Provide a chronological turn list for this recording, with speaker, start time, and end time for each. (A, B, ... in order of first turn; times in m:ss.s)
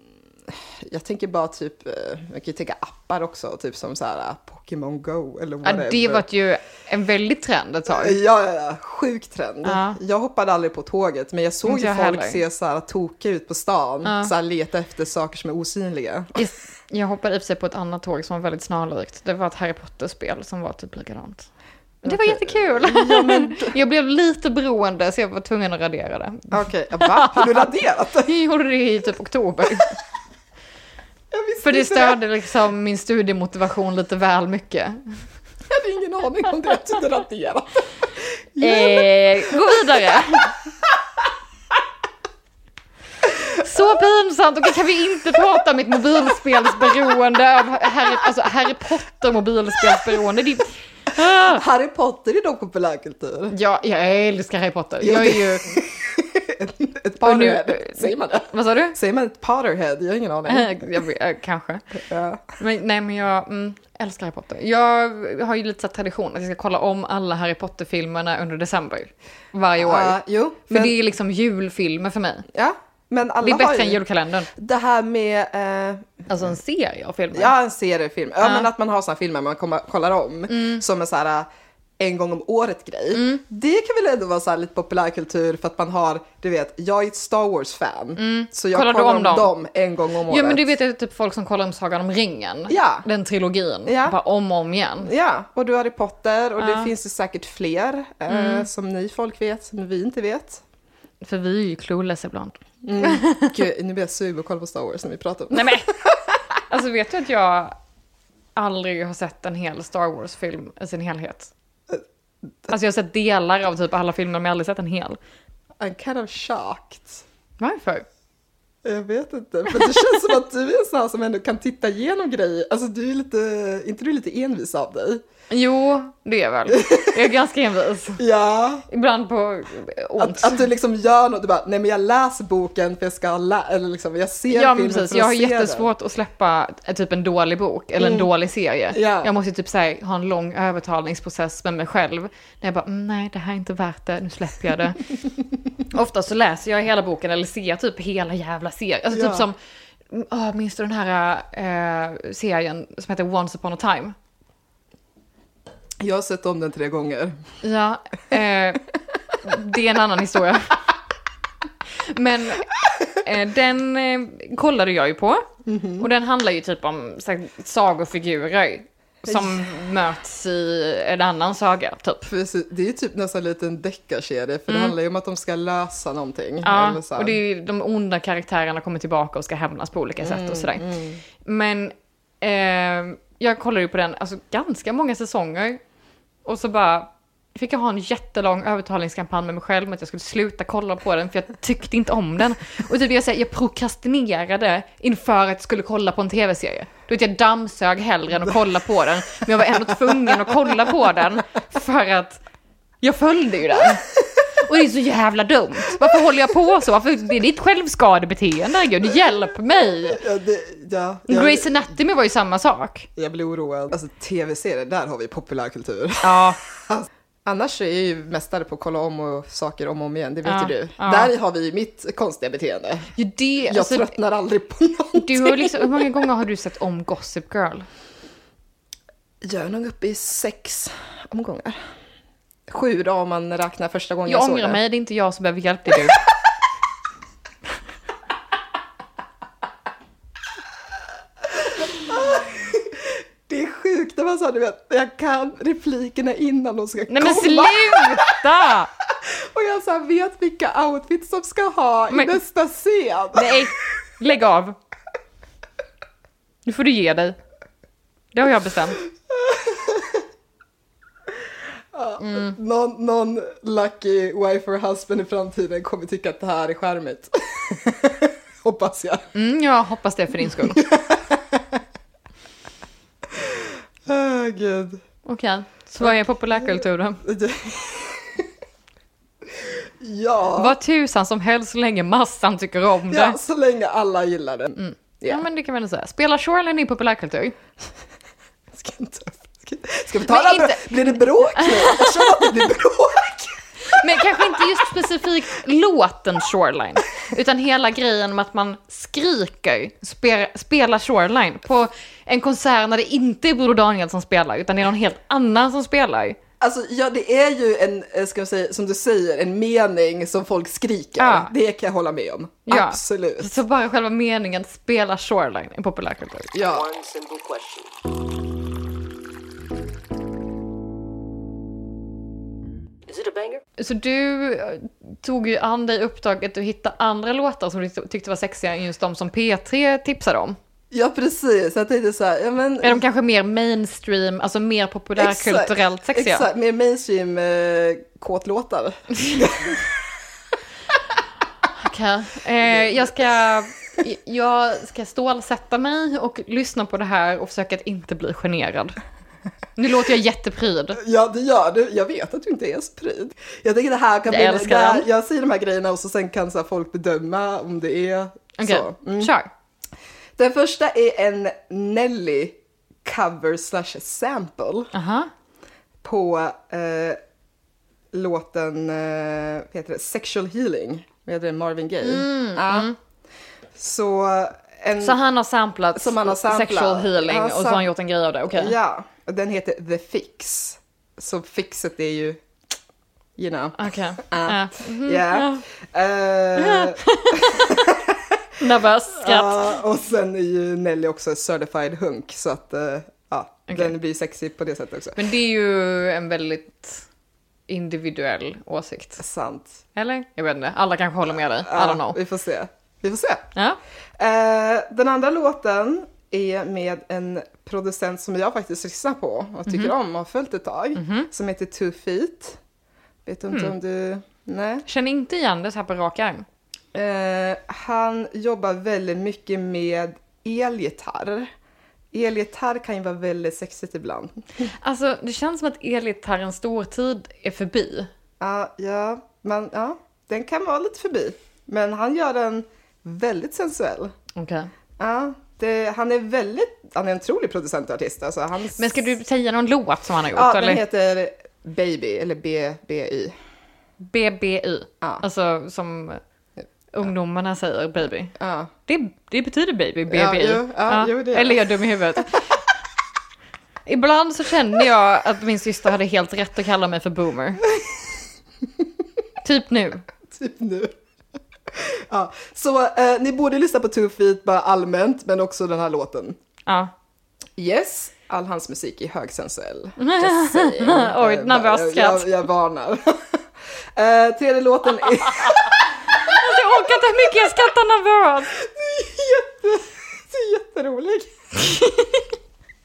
0:00.5-0:06.2 A
0:05.6-0:08.2 B
0:07.9-0:16.4 A
0:09.6-0:10.0 B
0:11.6-0:12.4 B
0:14.0-0:14.3 B
0:16.3-0:21.5 B
0:22.0-0:23.7 A
0:22.0-0:27.7 B
0:26.5-0:28.4 A
0:28.2-0:29.9 B
0:31.3-0:32.2 A
0:31.6-0:35.2 B
0:35.7-0:40.2 A
0:38.6-0:40.5 B
0:43.6-0:51.6 B
0:51.3-0:53.5 A
0:53.5-0:55.7 B
0:55.0-1:00.9 A
0:57.2-0:59.0 B
1:00.5-1:01.8 B
1:01.9-1:02.6 A
1:02.6-1:12.5 B
1:09.8-1:11.0 A
1:12.5-1:14.0 A
1:13.4-1:14.5 B
1:14.5-1:16.2 A
1:16.3-1:17.5 B
1:17.3-1:21.5 A
1:18.4-1:18.7 B
1:20.5-1:20.8 B
1:22.0-1:30.6 A
1:23.1-1:23.4 B
1:28.2-1:29.5 B
1:30.3-1:35.1 B
1:32.7-1:33.0 A
1:33.8-1:34.2 A
1:35.0-1:40.6 A
1:36.6-1:36.9 B
1:38.3-1:38.7 B
1:41.2-1:43.6 B
1:42.8-1:46.2 A
1:45.5-1:45.9 B
1:46.7-1:47.7 B
1:48.6-1:51.5 B
1:52.7-1:55.2 B
1:55.8-1:57.2 A
1:57.6-1:58.1 B
1:58.8-2:05.2 A
1:59.7-2:00.2 B
2:05.5-2:08.2 B
2:06.7-2:07.2 A
2:08.2-2:08.9 A
2:08.9-2:10.6 B
2:10.2-2:15.9 A
2:14.5-2:25.1 B
2:18.0-2:18.3 A
2:18.9-2:19.3 A
2:25.9-2:29.6 B
2:29.1-2:29.4 A
2:30.1-2:34.1 B
2:36.0-2:37.4 A
2:37.6-2:38.8 B
2:39.4-2:40.8 B
2:42.0-2:45.4 B
2:45.6-2:46.1 A
2:46.0-2:52.3 B
2:49.3-2:49.7 A
2:52.2-2:57.4 A
2:54.7-2:54.9 B
2:56.6-3:05.8 B
3:00.2-3:01.2 A
3:06.4-3:22.4 B
3:20.1-3:20.5 A
3:23.0-3:24.0 B
3:24.5-3:30.2 B
3:30.1-3:31.8 A
3:31.3-3:33.1 B
3:33.2-3:43.1 A
3:36.2-3:36.6 B
3:40.4-3:41.3 B
3:43.1-3:44.1 B
3:43.6-3:46.1 A
3:45.2-3:47.9 B
3:49.4-3:51.8 A
3:52.7-3:54.8 A
3:54.3-3:56.2 B
4:01.5-4:08.4 A
4:07.1-4:08.9 B
4:09.1-4:13.7 A
4:12.1-4:12.4 B
4:13.3-4:14.8 B
4:16.6-4:17.4 B
4:18.3-4:19.0 B
4:19.0-4:20.2 A
4:21.9-4:29.3 A
4:22.2-4:22.6 B
4:29.3-4:30.8 B
4:30.5-4:31.8 A
4:33.3-4:35.0 A
4:35.2-4:37.2 B
4:36.0-4:38.4 A
4:39.5-4:40.8 A
4:40.6-4:43.4 B
4:43.1-4:45.4 A
4:44.8-4:47.5 B
4:48.7-4:54.6 A
4:50.2-4:52.6 B
4:53.8-5:06.4 B
5:06.6-5:13.6 A
5:11.2-5:11.5 B
5:12.7-5:16.5 B
5:16.5-5:16.8 A
5:16.6-5:18.0 C
5:23.1-5:23.6 C
5:23.8-5:30.6 B
5:30.9-5:33.0 A
5:32.8-5:36.4 B
5:35.2-5:40.2 A
5:41.7-5:49.0 B
5:42.7-5:43.1 A
5:49.8-5:51.0 B
5:51.0-5:59.3 A
5:54.3-5:55.1 B
5:58.6-5:59.5 B
6:00.4-6:04.9 A
6:04.9-6:05.3 B
6:06.0-6:07.2 A
6:08.1-6:12.9 A
6:12.0-6:13.0 B
6:13.7-6:15.2 A
6:15.0-6:18.7 B
6:15.9-6:17.9 A
6:18.5-6:22.4 A
6:23.4-6:28.4 A
6:23.8-6:25.6 B
6:26.6-6:27.7 B
6:28.6-6:29.8 B
6:29.1-6:35.2 A
6:35.2-6:37.0 B
6:37.7-6:39.2 B
6:39.2-6:39.8 A
6:39.9-6:42.2 B
6:41.6-6:43.5 A
6:44.2-6:52.6 A
6:49.7-6:49.9 B
6:51.0-6:51.3 B
6:53.2-6:54.8 A
6:54.8-6:56.4 B
6:56.9-7:01.5 A
7:02.1-7:04.3 A
7:04.8-7:08.1 B
7:08.4-7:14.1 A
7:14.3-7:14.7 B
7:15.0-7:19.0 A
7:18.8-7:20.8 B
7:20.3-7:23.3 A
7:24.0-7:26.2 B
7:26.9-7:28.3 B
7:28.4-7:28.7 A
7:28.9-7:32.5 B
7:30.1-7:31.8 A
7:33.8-7:37.6 B
7:39.4-7:40.0 B
7:40.3-7:40.9 A
7:41.7-7:46.4 A
7:46.6-7:46.9 B
7:47.6-7:53.4 A
7:50.0-7:52.4 B
7:53.9-7:57.5 A
7:56.2-7:58.5 B
7:58.5-8:01.5 A
8:01.7-8:02.2 B